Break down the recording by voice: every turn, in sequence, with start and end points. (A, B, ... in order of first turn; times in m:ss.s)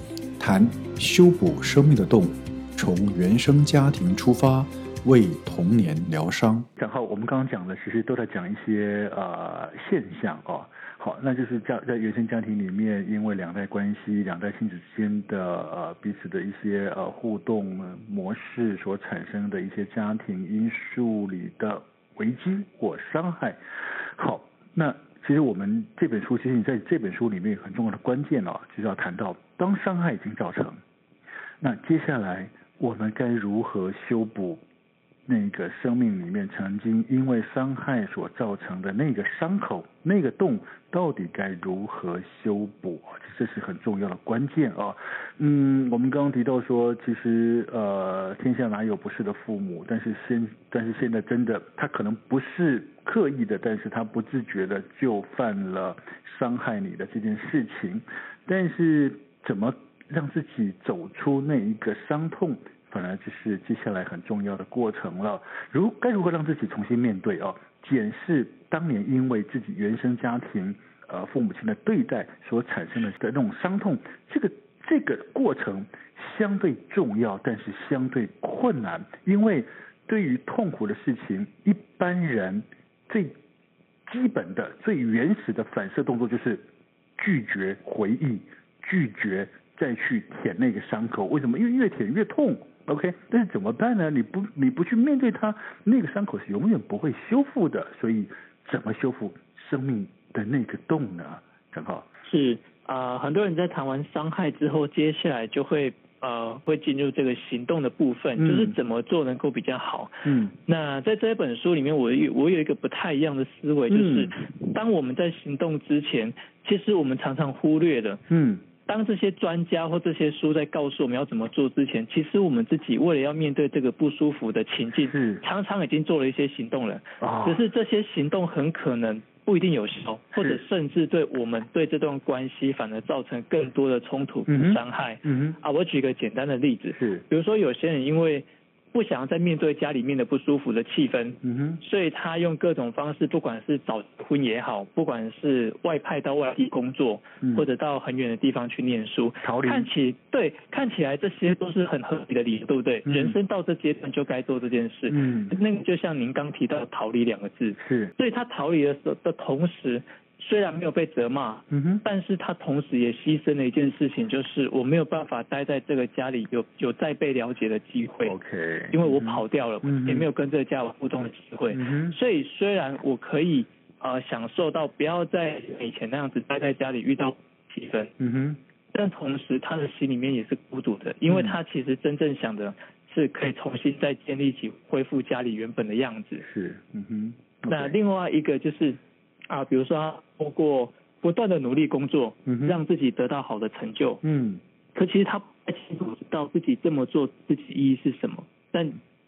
0:00.4-0:06.7 A
0:06.8-0:23.6 B
0:24.2-0:30.8 B
0:31.6-0:34.6 B
0:35.3-1:23.3 B
1:24.0-1:26.6 B
1:27.2-1:42.0 B
1:42.2-1:58.2 C
1:48.4-1:48.8 B
1:50.2-1:50.5 B
1:53.9-1:54.3 B
1:58.3-1:58.6 B
1:58.8-2:48.3 C
2:05.0-2:05.4 B
2:07.2-2:07.6 B
2:10.3-2:10.6 B
2:14.5-2:15.6 B
2:16.9-2:17.2 B
2:21.4-2:21.8 B
2:27.4-2:27.7 B
2:29.4-2:29.9 B
2:33.0-2:33.4 B
2:35.1-2:35.5 B
2:37.8-2:38.1 B
2:41.7-2:42.0 B
2:48.2-2:50.3 B
2:48.9-2:58.1 C
2:51.7-2:52.2 B
2:58.2-2:58.6 B
2:58.9-3:06.4 C
3:01.3-3:01.6 B
3:06.4-3:08.0 B
3:07.7-3:14.2 C
3:12.4-3:12.8 B
3:14.2-3:14.6 B
3:14.9-3:19.0 C